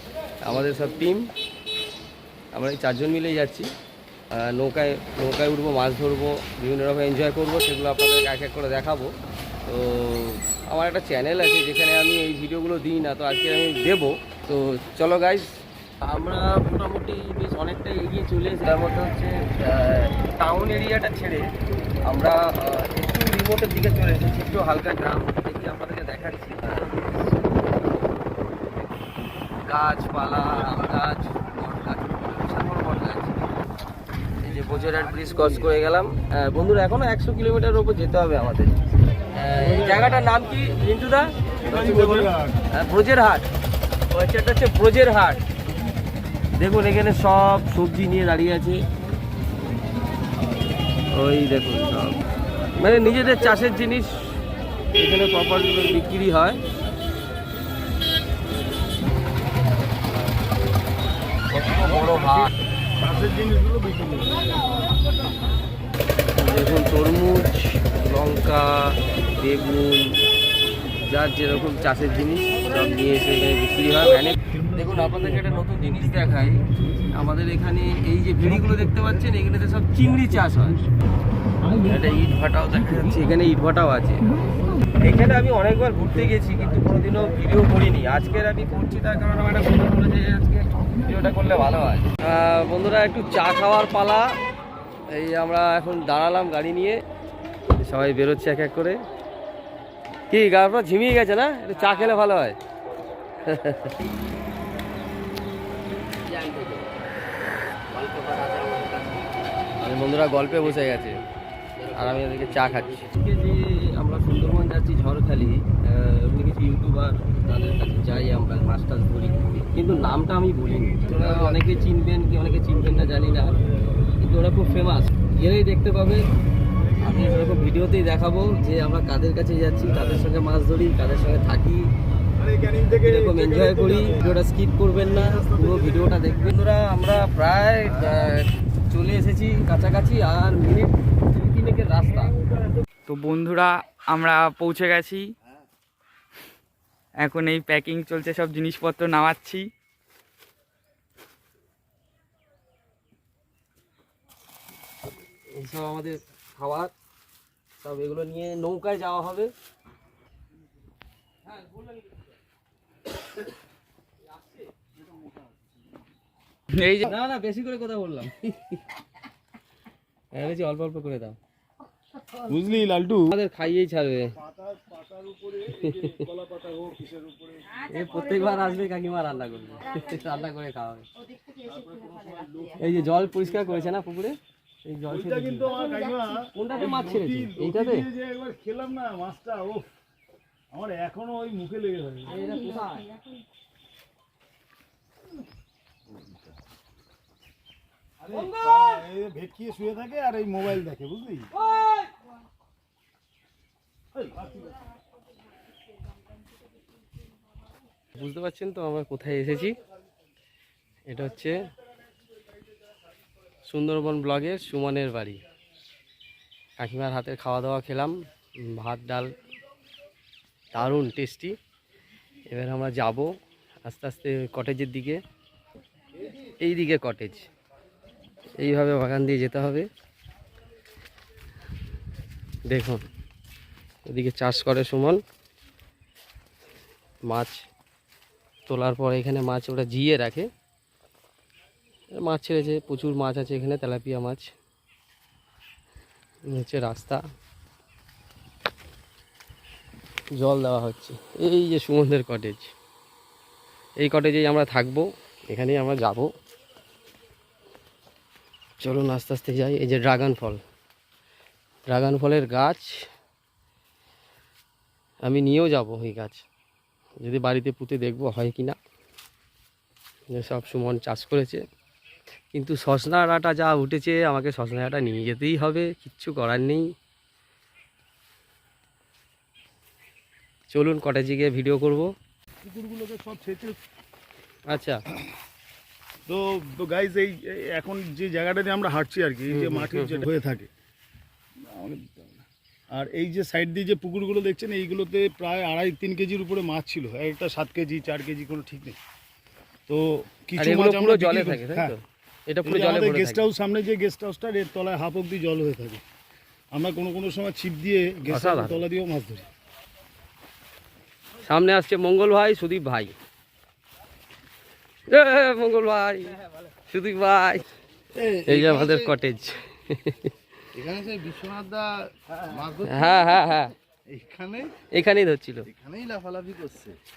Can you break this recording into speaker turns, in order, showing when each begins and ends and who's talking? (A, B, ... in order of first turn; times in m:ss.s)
0:00.4-0:01.3 A
0:02.5-0:03.7 A
0:04.3-0:09.1 A
0:09.6-0:15.5 A
0:16.0-0:21.5 A
0:22.0-0:27.1 A
0:29.6-0:33.4 A
0:34.4-0:38.7 A
0:39.3-0:43.5 A
0:39.6-0:40.2 B
0:41.6-0:42.6 B
0:44.1-0:45.4 A
0:46.6-0:48.8 A
0:51.1-0:52.2 A
0:52.8-0:54.4 A
0:55.0-0:56.6 A
1:01.5-1:02.5 A
1:01.8-1:02.4 B
1:03.0-1:04.5 B
1:06.3-1:10.2 A
1:10.9-1:20.8 A
1:14.6-1:15.5 B
1:21.8-1:24.3 A
1:24.9-1:34.4 A
1:35.1-1:37.0 A
1:37.7-1:39.0 A
1:40.3-1:42.6 A
1:43.4-1:43.9 A
1:46.4-1:46.8 C
1:47.9-1:49.0 A
1:48.3-1:49.2 C
1:49.8-1:51.2 A
1:51.9-2:06.3 A
2:01.0-2:01.7 B
2:06.7-2:07.8 B
2:07.0-2:11.9 A
2:10.0-2:10.2 B
2:12.3-2:16.6 B
2:13.0-2:22.3 A
2:17.9-2:18.2 B
2:23.0-2:25.3 D
2:27.2-2:29.7 D
2:35.5-2:36.9 A
2:37.8-2:39.5 A
2:45.1-2:45.4 B
2:46.7-2:47.1 D
2:47.0-2:48.8 A
2:50.3-2:51.4 A
2:52.4-2:53.4 B
2:53.3-2:54.3 A
2:54.4-2:58.3 B
2:56.0-2:56.2 A
2:57.8-3:01.1 A
3:01.5-3:03.9 B
3:02.8-3:05.8 A
3:05.1-3:09.9 B
3:06.5-3:08.0 A
3:10.7-3:12.4 B
3:12.2-3:13.2 A
3:16.1-3:16.5 B
3:18.2-3:21.5 B
3:18.3-3:18.9 A
3:24.1-3:24.8 B
3:28.2-3:29.8 A
3:31.1-3:31.7 A
3:33.6-3:35.4 A
3:36.8-3:39.3 A
3:40.7-3:41.6 A
3:42.5-3:43.3 A
3:43.8-3:45.2 A
3:46.4-3:47.5 A
3:48.6-3:49.9 A
3:52.7-3:53.0 A
3:54.1-3:55.2 A
3:57.3-3:57.6 A
3:58.7-4:00.5 A
4:02.2-4:04.5 A
4:06.5-4:07.2 A
4:10.4-4:12.7 A
4:14.0-4:16.3 A
4:18.8-4:20.6 A
4:21.9-4:23.0 A
4:25.2-4:26.4 A
4:27.2-4:28.8 A
4:30.3-4:31.6 A
4:32.5-4:36.9 A
4:40.7-4:42.1 A
4:42.6-4:43.8 B
4:44.7-4:45.0 A
4:46.3-4:50.7 B
4:49.5-4:50.2 A
4:51.6-4:59.0 B
4:59.9-5:01.9 B
5:00.6-5:03.4 A
5:02.6-5:06.0 B
5:06.7-5:09.4 B
5:08.3-5:08.8 A
5:11.4-5:13.1 A
5:15.1-5:16.4 A
5:16.9-5:17.6 A
5:18.1-5:19.1 C
5:18.5-5:20.3 A
5:20.7-5:24.7 C
5:22.3-5:22.6 B
5:22.9-5:23.7 A
5:24.9-5:25.6 A
5:25.7-5:27.0 C